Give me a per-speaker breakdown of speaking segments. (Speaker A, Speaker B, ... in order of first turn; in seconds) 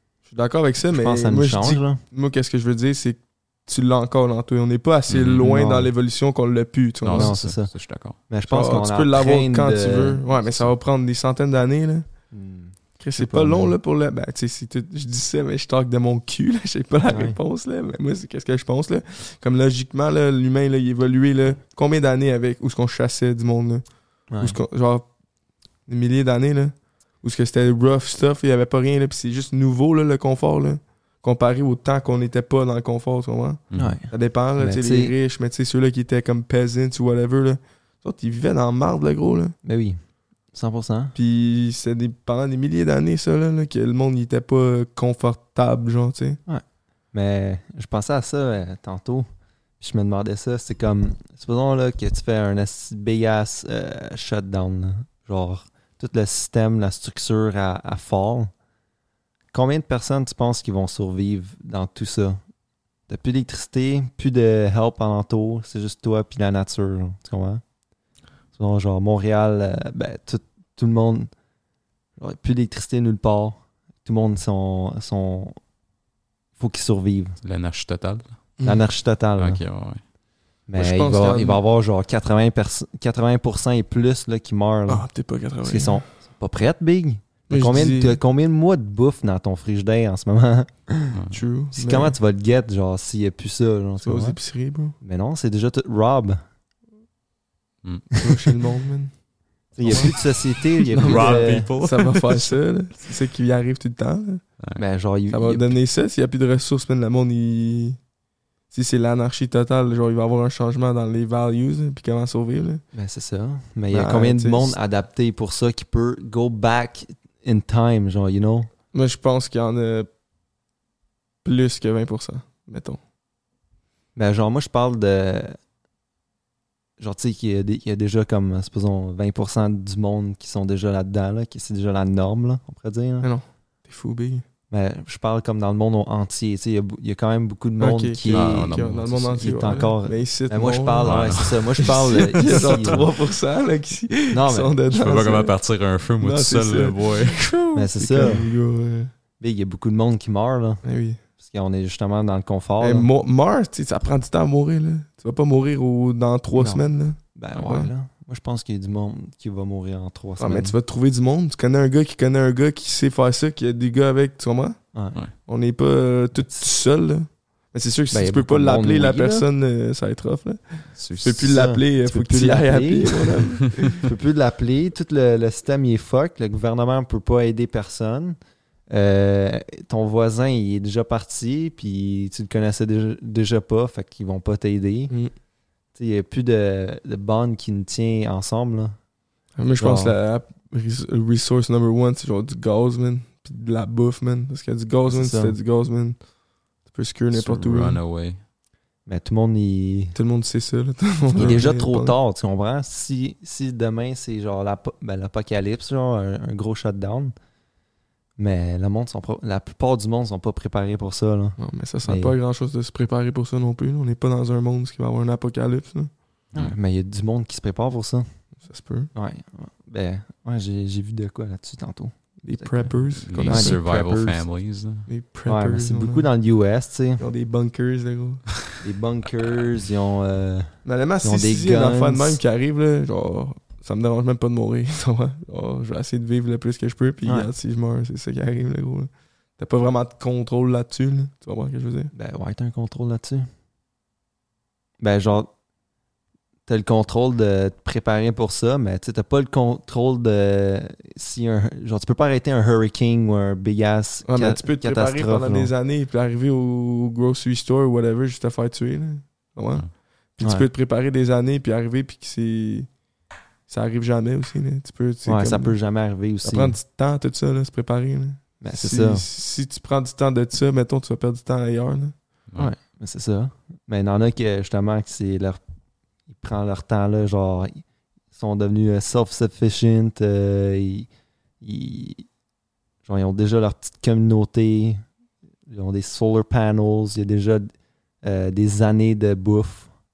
Speaker A: 0.3-7.4, 8.5-12.2, 13.0-25.2, 25.8-39.5, 41.1-46.4, 80.8-81.6, 84.9-86.1, 87.5-88.2, 91.3-92.2, 94.0-95.0, 98.2-99.2, 99.7-100.3, 100.9-104.5, 105.3-108.0, 108.7-112.8, 113.9-114.8, 118.9-120.1, 121.4-123.0, 133.2-134.4, 137.8-145.6, 146.2-149.1, 150.8-151.2, 152.8-157.9, 160.4-164.8, 165.3-174.1, 189.6-196.3, 196.8-198.0, 200.1-202.2, 211.6-216.1, 218.6-219.1, 222.4-223.8, 225.1-226.3, 227.2-228.5, 230.8-242.1, 254.2-262.9, 263.7-265.8, 266.4-272.2
Speaker B: 0.9-2.0, 5.4-5.9, 7.1-10.7, 12.3-13.8, 17.1-17.4, 24.3-24.6, 33.8-35.1, 39.6-41.1, 46.5-49.3, 49.8-58.5, 59.5-62.4, 63.1-67.6, 68.5-71.3, 72.2-75.6, 76.6-77.4, 78.6-79.6, 80.7-91.2, 91.7-94.4, 95.0-96.4, 99.7-101.7, 104.8-105.8, 112.9-118.7, 124.1-125.6, 127.0-133.3, 134.7-143.1, 144.3-144.8, 147.7-148.5, 149.4-153.1, 156.6-160.8, 164.9-165.2, 166.4-166.7, 168.1-169.5, 171.4-178.4, 178.9-185.2, 185.9-189.0, 189.8-190.2, 195.1-195.6, 199.1-200.2, 201.3-207.3, 208.4-212.3, 216.6-218.4, 219.1-222.9, 223.4-224.4, 225.4-227.2, 228.8-232.4, 237.2-237.5, 242.1-243.5, 245.0-245.5, 246.7-255.7, 260.4-260.7, 265.2-266.8, 268.6-269.2, 272.6-275.6, 276.3-281.1, 281.6-282.3, 283.0-285.1, 285.7-289.9
Speaker C: 5.1-5.5, 7.0-8.2, 33.7-34.0, 77.4-78.4, 79.4-80.0, 91.1-91.4, 97.8-98.1, 99.8-100.3, 100.9-102.5, 138.3-139.8, 141.0-143.0, 144.9-147.6, 170.9-171.6, 197.3-198.4, 223.1-225.1